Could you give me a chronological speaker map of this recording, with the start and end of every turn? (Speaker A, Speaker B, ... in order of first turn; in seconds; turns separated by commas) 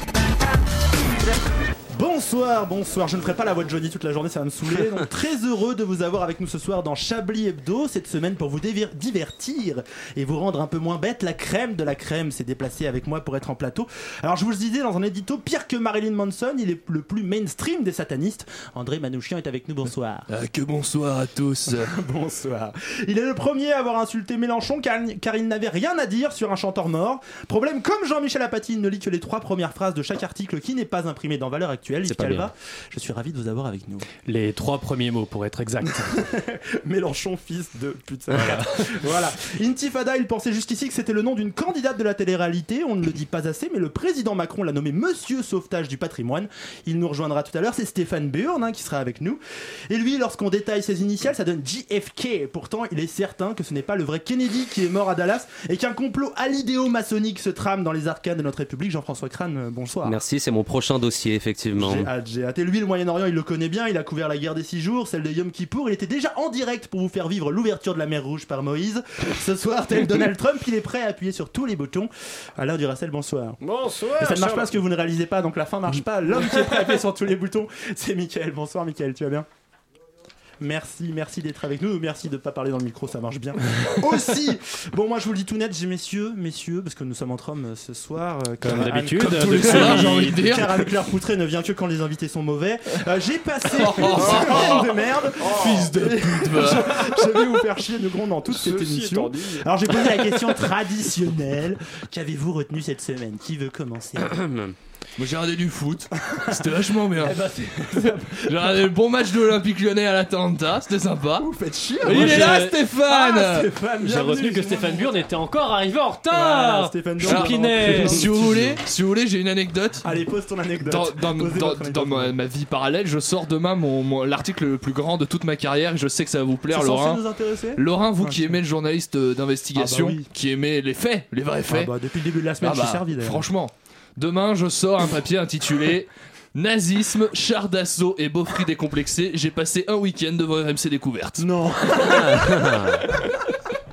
Speaker A: 1.9-20.3, Speaker B: 20.3-21.9, Speaker A: 21.9-34.1, Speaker C: 32.1-32.5, Speaker D: 34.3-36.2, Speaker A: 36.0-60.2, Speaker C: 60.0-62.1, Speaker A: 61.8-73.6, Speaker E: 73.6-74.7, Speaker A: 74.2-79.5, Speaker A: 80.6-104.4, Speaker D: 88.6-90.2, Speaker B: 89.3-90.9, Speaker B: 93.7-97.3, Speaker E: 94.2-95.9, Speaker E: 98.5-99.7, Speaker C: 104.3-104.8, Speaker B: 105.2-107.4, Speaker A: 107.2-108.7, Speaker B: 108.4-111.5, Speaker A: 111.4-115.3, Speaker B: 112.0-113.7, Speaker D: 112.1-112.8, Speaker D: 114.0-118.2, Speaker A: 116.3-118.8, Speaker B: 117.3-120.1, Speaker A: 120.0-122.3, Speaker B: 120.8-127.2, Speaker A: 126.7-128.6, Speaker B: 127.8-131.9, Speaker A: 129.8-130.3, Speaker A: 131.7-133.5, Speaker B: 132.6-142.5, Speaker A: 141.4-143.0, Speaker C: 142.3-142.9